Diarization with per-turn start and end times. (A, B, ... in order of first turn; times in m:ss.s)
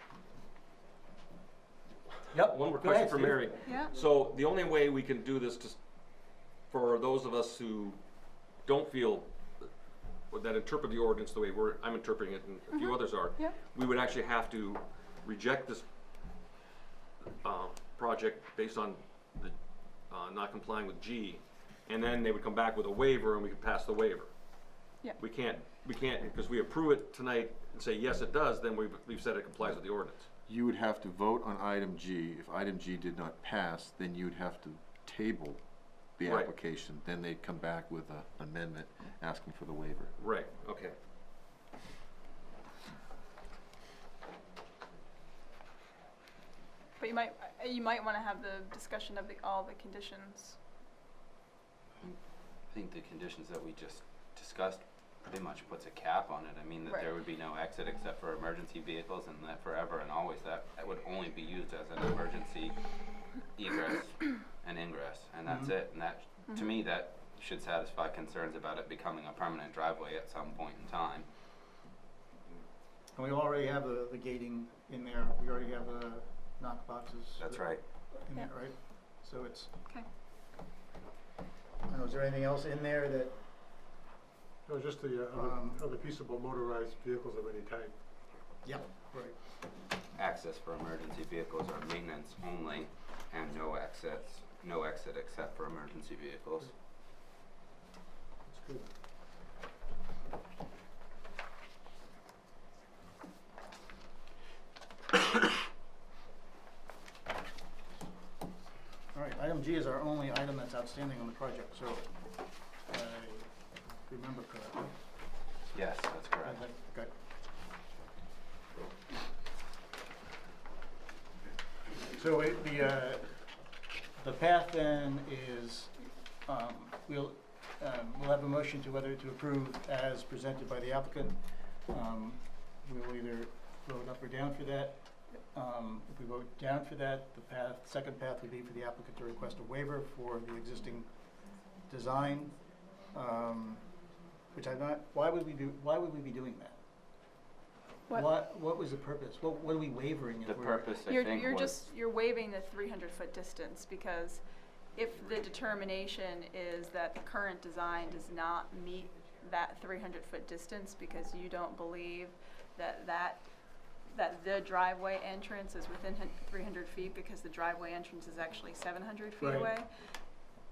0:02.3-0:03.6 A
0:02.3-0:05.8 B
0:03.6-0:04.0 C
0:06.7-0:08.0 B
0:08.6-0:09.7 B
0:10.3-0:15.8 B
0:12.7-0:13.6 C
0:17.4-0:19.5 B
0:20.1-0:24.3 B
0:25.2-0:30.3 B
0:30.5-0:35.6 D
0:36.2-0:40.1 D
0:36.2-0:36.5 B
0:40.2-0:41.0 B
0:47.0-0:50.6 C
0:52.7-1:02.8 E
1:03.6-1:11.3 E
1:05.5-1:05.8 A
1:13.2-1:19.7 A
1:17.4-1:17.8 E
1:21.9-1:23.4 A
1:24.7-1:28.0 F
1:25.3-1:25.9 A
1:28.6-1:29.4 A
1:30.2-1:36.7 E
1:38.5-1:38.9 F
1:49.1-1:52.1 A
1:52.9-1:53.5 A
1:54.1-1:55.0 A
1:55.7-1:56.6 E
1:56.4-1:57.1 A
2:02.1-2:03.4 A
2:04.2-2:15.0 A
2:15.5-2:21.1 A
2:21.9-2:22.6 A
2:23.1-2:23.8 A
2:24.5-2:26.8 A
2:28.1-2:31.0 A
2:30.4-2:31.9 E
2:31.0-2:34.4 C
2:35.0-2:43.4 C
2:44.1-2:49.9 C
2:49.4-2:49.7 A